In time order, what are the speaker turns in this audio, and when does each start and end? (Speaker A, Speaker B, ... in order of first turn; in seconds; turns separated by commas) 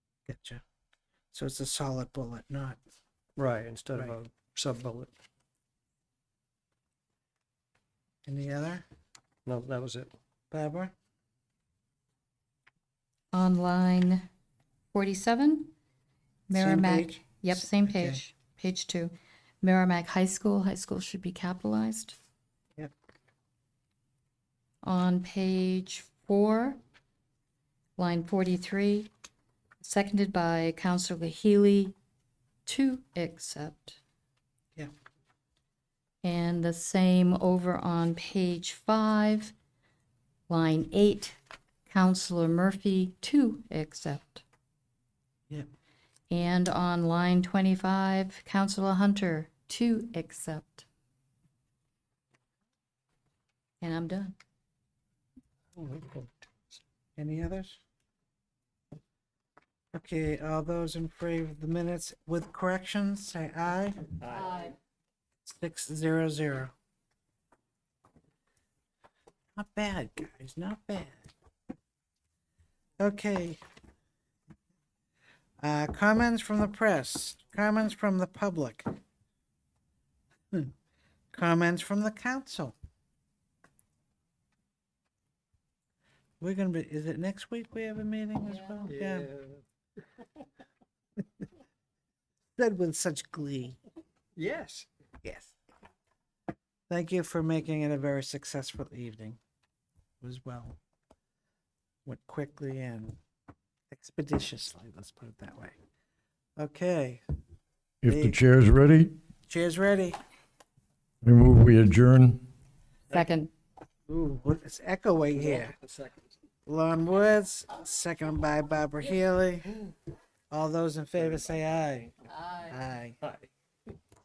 Speaker A: 0.2-0.6, Speaker A: 1.3-2.8, Speaker B: 3.4-5.1, Speaker A: 8.2-8.8, Speaker B: 9.4-10.1, Speaker A: 10.5-10.9, Speaker C: 13.3-14.3, Speaker C: 14.9-15.7, Speaker C: 16.5-22.2, Speaker A: 16.5-18.2, Speaker C: 24.8-26.8, Speaker C: 28.0-29.1, Speaker C: 29.8-31.9, Speaker C: 32.6-34.0, Speaker C: 36.2-39.5, Speaker C: 40.5-41.4, Speaker C: 41.9-44.4, Speaker C: 46.3-50.9, Speaker C: 53.8-54.4, Speaker B: 55.8-56.3, Speaker A: 57.1-57.8, Speaker A: 59.9-64.5, Speaker B: 64.3-64.7, Speaker A: 65.4-66.7, Speaker A: 69.5-71.3, Speaker A: 73.0-73.6, Speaker A: 75.6-78.8, Speaker A: 81.3-82.7, Speaker A: 86.4-89.3, Speaker B: 88.8-89.6, Speaker A: 92.6-93.8, Speaker B: 94.3-94.9, Speaker A: 95.2-95.5, Speaker A: 96.9-99.4, Speaker A: 100.2-100.8, Speaker A: 102.0-103.2, Speaker A: 103.9-105.8, Speaker A: 106.6-107.2, Speaker D: 108.0-109.2, Speaker A: 108.0-108.4, Speaker A: 109.5-110.2, Speaker D: 111.2-112.4, Speaker C: 113.1-113.5, Speaker A: 114.1-115.8, Speaker B: 115.4-116.2, Speaker A: 116.7-119.8, Speaker A: 120.5-123.2